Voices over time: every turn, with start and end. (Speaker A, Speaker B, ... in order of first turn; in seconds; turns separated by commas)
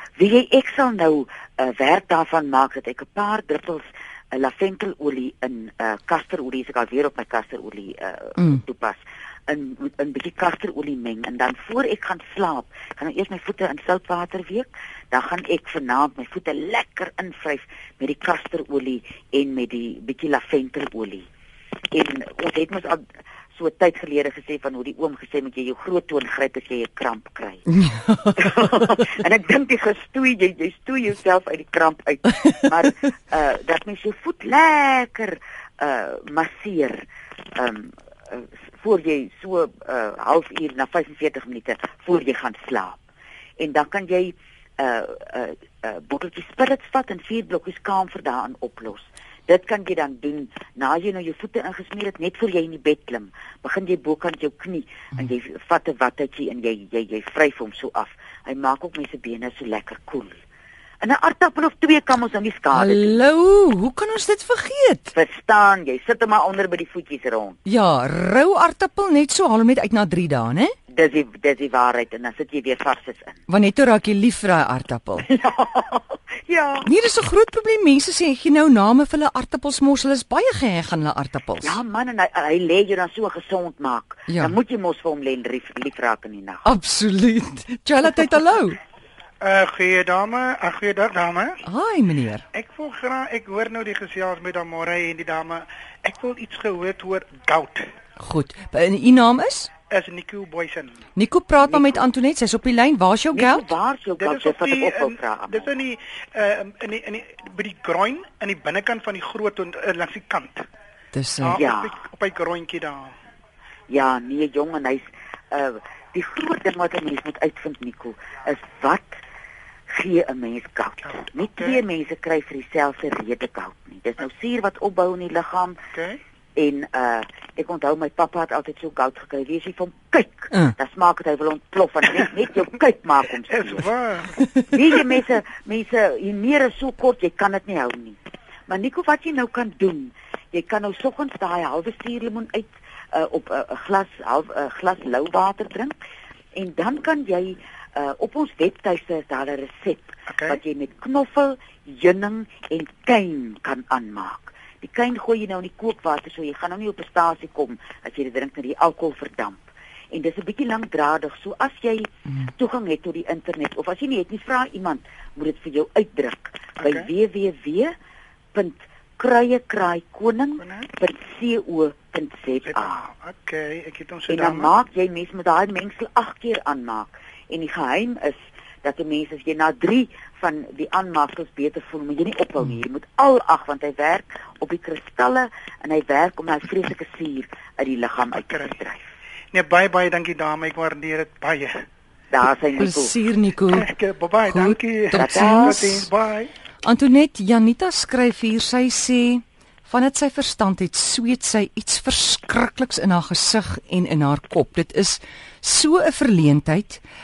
Speaker A: 0.2-21.2, Speaker A: 21.9-27.7, Speaker B: 27.7-28.6, Speaker A: 28.4-37.0, Speaker A: 37.6-43.0, Speaker A: 43.6-60.4, Speaker A: 61.0-63.1, Speaker B: 62.7-65.1, Speaker A: 65.1-67.6, Speaker B: 67.7-70.8, Speaker A: 70.9-73.4, Speaker B: 73.5-75.3, Speaker A: 75.3-76.9, Speaker B: 76.8-81.8, Speaker A: 81.6-86.7, Speaker B: 84.3-84.5, Speaker B: 86.7-88.8, Speaker C: 89.4-91.6, Speaker B: 91.6-92.4, Speaker C: 92.5-97.9, Speaker B: 98.2-99.7, Speaker C: 99.9-101.0, Speaker B: 101.2-103.6, Speaker A: 101.7-102.1, Speaker A: 103.3-105.7, Speaker C: 104.2-110.7, Speaker B: 111.1-111.6, Speaker C: 111.4-113.2, Speaker A: 111.5-111.9, Speaker A: 113.9-119.2, Speaker A: 119.9-125.8, Speaker C: 125.9-126.2, Speaker A: 126.5-133.9, Speaker C: 133.5-134.4, Speaker A: 134.7-146.0, Speaker A: 146.6-167.9, Speaker C: 150.3-150.6, Speaker C: 166.8-167.1, Speaker A: 168.5-173.1, Speaker C: 170.6-170.9, Speaker C: 172.7-174.7, Speaker A: 174.3-189.1, Speaker C: 188.5-188.7, Speaker C: 189.5-191.8, Speaker A: 192.3-193.1, Speaker B: 192.8-193.9, Speaker C: 193.7-196.5, Speaker B: 194.5-196.1, Speaker A: 195.1-195.9, Speaker B: 196.8-207.0